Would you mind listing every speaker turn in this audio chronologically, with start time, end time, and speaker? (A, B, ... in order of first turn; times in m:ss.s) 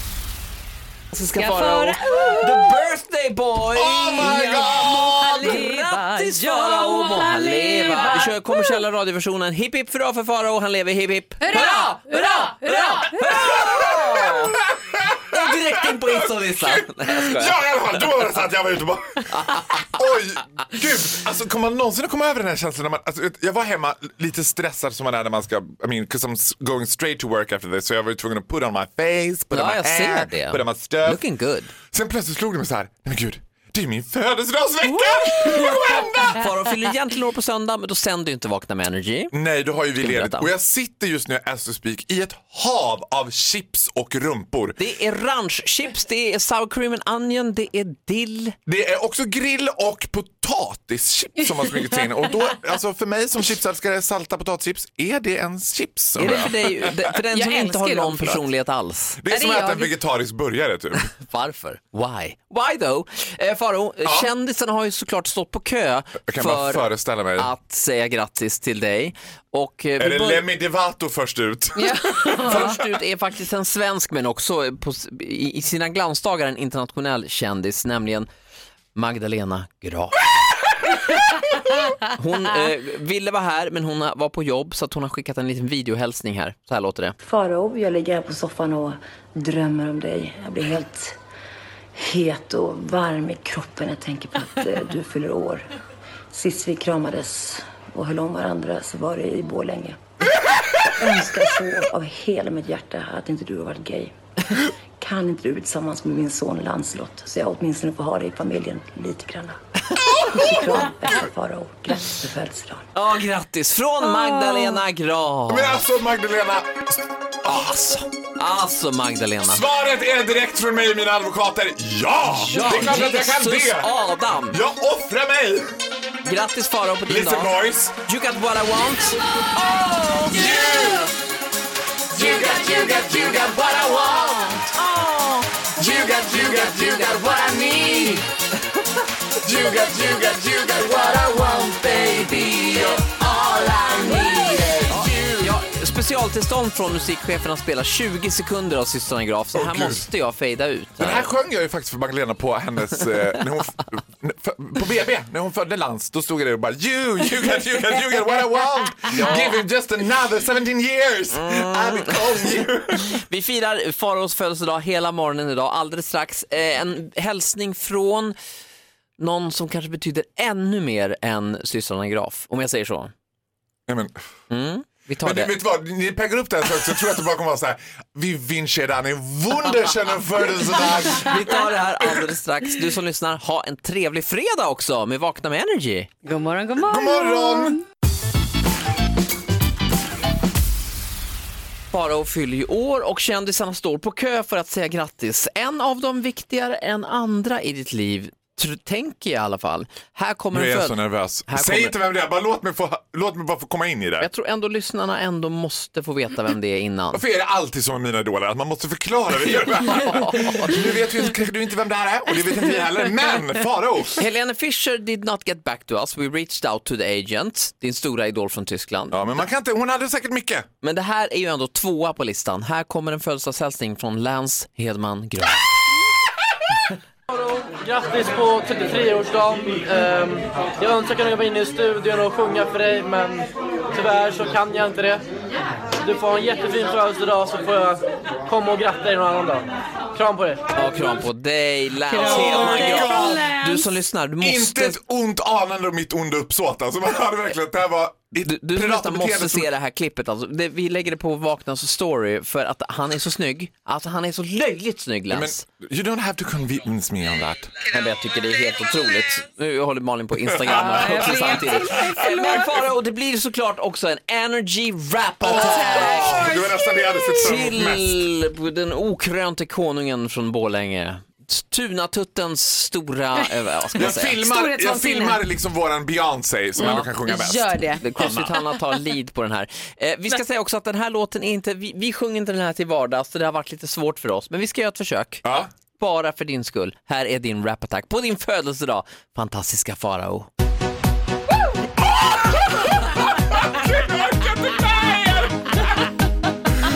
0:01.1-0:14.6 A
0:01.4-0:02.8 B
0:03.7-0:05.6 C
0:04.2-0:08.7 B
0:11.4-0:13.6 B
0:13.5-0:31.2 C
0:15.3-0:17.6 A
0:19.3-0:19.9 A
0:29.5-0:31.7 A
0:31.9-0:36.5 C
0:35.2-0:39.3 A
0:35.4-0:36.0 B
0:39.3-0:44.8 C
0:40.0-0:40.5 A
0:44.8-0:48.6 A
0:48.7-0:56.9 C
0:51.7-0:52.0 B
0:56.2-0:59.2 A
0:57.3-0:58.4 B
0:59.2-1:01.1 C
0:59.3-0:59.9 B
1:01.2-1:10.5 A
1:04.0-1:04.3 C
1:06.3-1:07.5 C
1:10.0-1:12.8 C
1:11.8-1:12.8 B
1:12.3-1:18.3 A
1:19.0-1:20.2 A
1:22.0-1:27.2 A
1:27.2-1:31.2 D
1:32.0-1:35.7 D
1:36.3-1:40.0 D
1:40.8-1:49.6 D
1:50.0-1:50.8 C
1:50.2-1:52.9 D
1:52.9-1:55.8 A
1:54.1-1:54.8 B
1:55.5-1:57.9 C
1:57.5-1:59.6 A
1:59.4-2:03.9 C
2:02.3-2:04.6 A
2:04.5-2:05.8 C
2:06.2-2:09.2 A
2:07.1-2:08.0 C
2:09.6-2:11.1 B
2:10.3-2:11.1 C
2:12.1-2:14.6 C
2:12.2-2:13.4 B
2:14.7-2:15.7 A
2:15.8-2:18.2 C
2:19.4-2:25.6 C
2:22.0-2:22.8 A
2:23.9-2:24.8 B
2:24.0-2:31.3 A
2:29.5-2:30.1 C
2:31.0-2:43.2 C
2:39.1-2:39.6 A
2:41.3-2:48.4 A
2:49.2-2:53.1 A
2:53.9-2:54.2 C
2:54.5-2:55.5 A
2:55.2-3:02.1 C
3:01.1-3:06.1 A
3:06.2-3:07.8 B
3:06.8-3:07.8 C
3:11.9-3:22.0 A
3:20.5-3:24.3 C
3:24.2-3:27.2 A
3:27.1-3:34.2 C
3:29.9-3:30.8 A
3:34.2-3:39.2 A
3:39.1-3:40.7 C
3:40.8-3:45.6 A
3:47.3-3:55.2 E
3:56.0-4:00.7 E
4:00.7-4:05.0 A
4:02.1-4:03.9 B
4:02.2-4:03.6 C
4:04.4-4:09.7 C
4:08.4-4:15.6 A
4:15.3-4:17.7 C
4:17.9-4:26.5 A
4:20.5-4:22.7 C
4:20.7-4:22.7 B
4:25.4-4:28.2 C
4:25.5-4:27.4 B
4:27.4-4:34.4 A
4:34.0-4:38.6 C
4:34.0-4:35.4 B
4:36.8-4:38.0 B
4:36.8-4:37.1 A
4:38.0-4:45.4 A
4:45.4-4:45.7 C
4:46.0-4:50.5 A
4:52.0-4:55.9 C